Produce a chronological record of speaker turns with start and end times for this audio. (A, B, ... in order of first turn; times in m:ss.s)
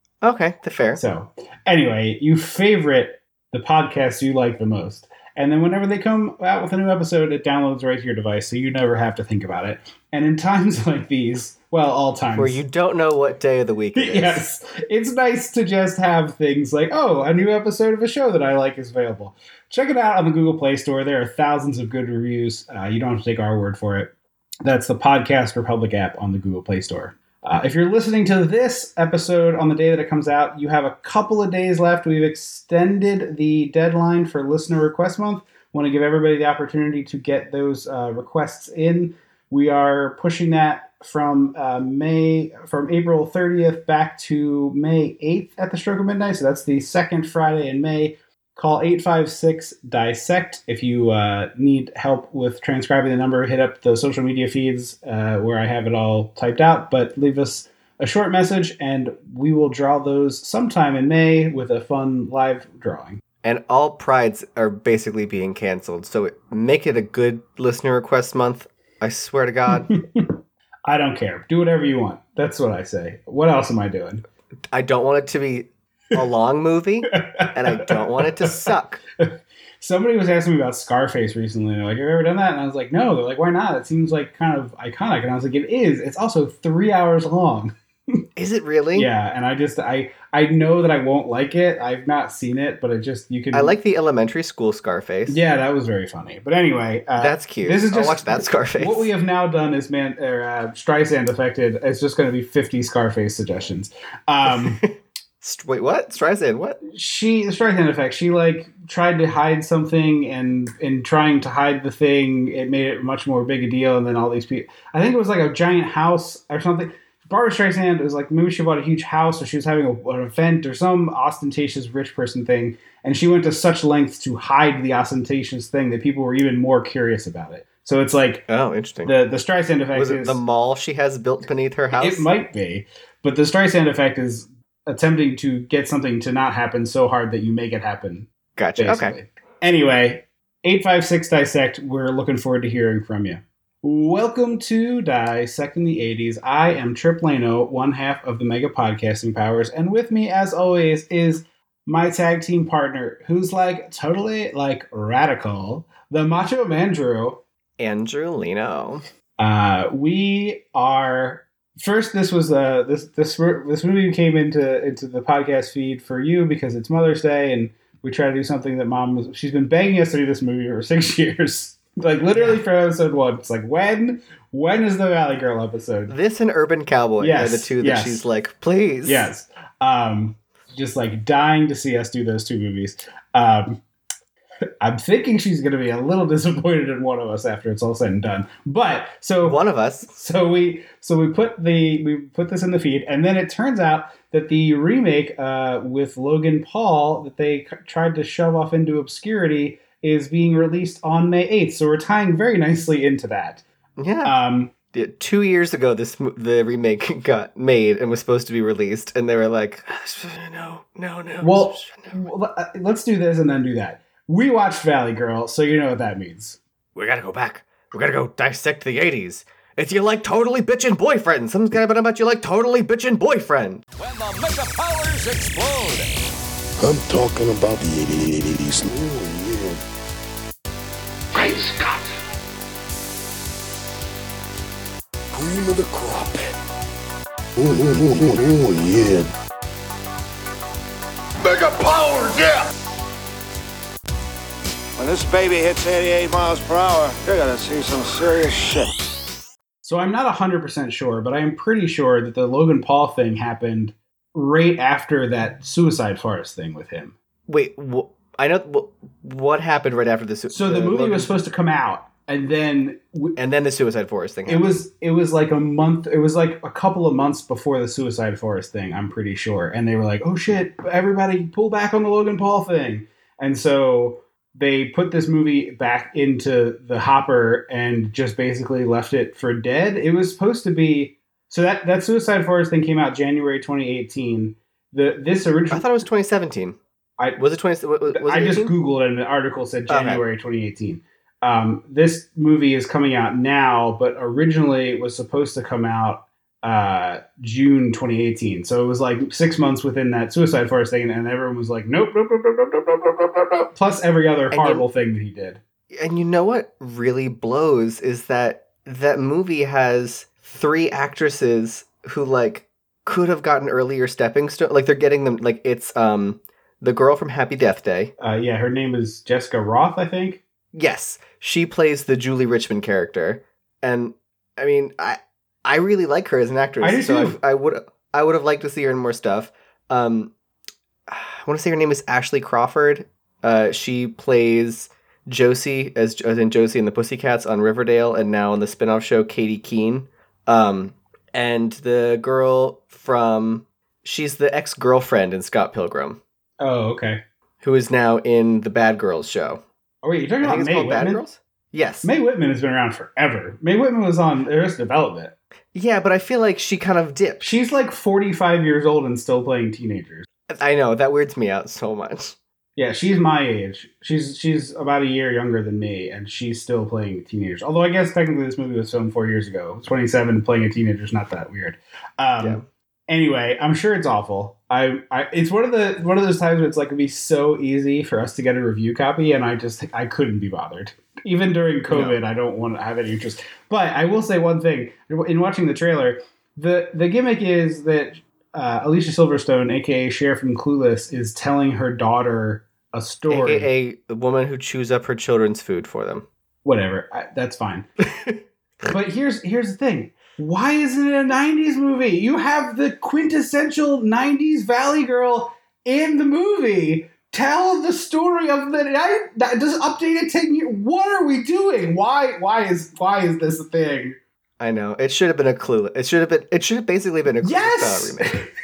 0:00.2-0:01.0 A
0:01.0-0:12.6 B
0:12.3-0:14.4 A
0:13.9-0:24.1 B
0:24.6-1:03.2 B
1:03.4-1:10.0 A
1:09.7-1:10.3 B
1:10.8-1:14.2 B
1:14.7-1:19.0 A
1:17.2-1:19.3 B
1:19.8-1:28.2 B
1:28.4-1:29.1 A
1:28.9-1:33.8 B
1:33.5-1:35.4 A
1:35.3-1:44.8 B
1:37.2-1:39.1 A
1:44.4-1:46.8 A
1:46.8-2:08.4 B
2:08.5-2:09.1 A
2:09.0-2:10.4 B
2:09.9-2:12.3 A
2:12.0-2:37.4 B
2:18.6-2:19.2 A
2:37.8-2:39.0 A
2:39.4-2:56.1 B
2:52.3-2:52.6 A
2:56.1-2:59.3 A
2:57.2-2:58.2 B
2:59.0-3:03.8 B
3:04.8-3:23.6 B
3:09.4-3:10.1 A
3:24.0-3:24.3 A
3:24.2-3:24.7 B
3:24.9-3:32.1 A
3:31.4-3:36.6 B
3:36.9-3:43.8 A
3:44.0-3:46.1 C
3:46.8-3:49.8 D
3:51.3-3:52.0 E
3:55.3-3:56.4 D
3:57.6-3:59.3 D
4:01.5-4:02.6 E
4:05.0-4:09.0 E
4:09.8-4:17.1 B
4:17.5-4:21.3 A
4:20.5-4:23.4 B
4:23.4-4:24.6 A
4:24.5-4:45.9 B
4:45.7-4:46.8 A
4:47.4-4:48.7 A
4:48.1-5:05.6 B
4:49.9-4:50.2 A
5:04.5-5:04.8 A
5:05.9-5:18.1 A
5:18.2-5:20.4 B
5:20.7-5:30.3 A
5:26.8-5:27.4 B
5:31.1-5:46.2 A
5:46.6-5:47.2 B
5:47.6-5:49.6 A
5:50.0-5:51.2 B
5:50.4-5:52.1 A
5:52.0-5:55.3 B
5:55.7-5:57.6 A
5:57.4-6:00.3 B
6:00.5-6:02.4 A
6:02.8-6:33.7 B
6:12.4-6:12.6 A
6:21.9-6:22.2 A
6:33.3-6:36.2 A
6:36.6-6:37.8 B
6:38.8-6:54.2 B
6:54.6-6:58.4 A
6:57.4-6:58.5 B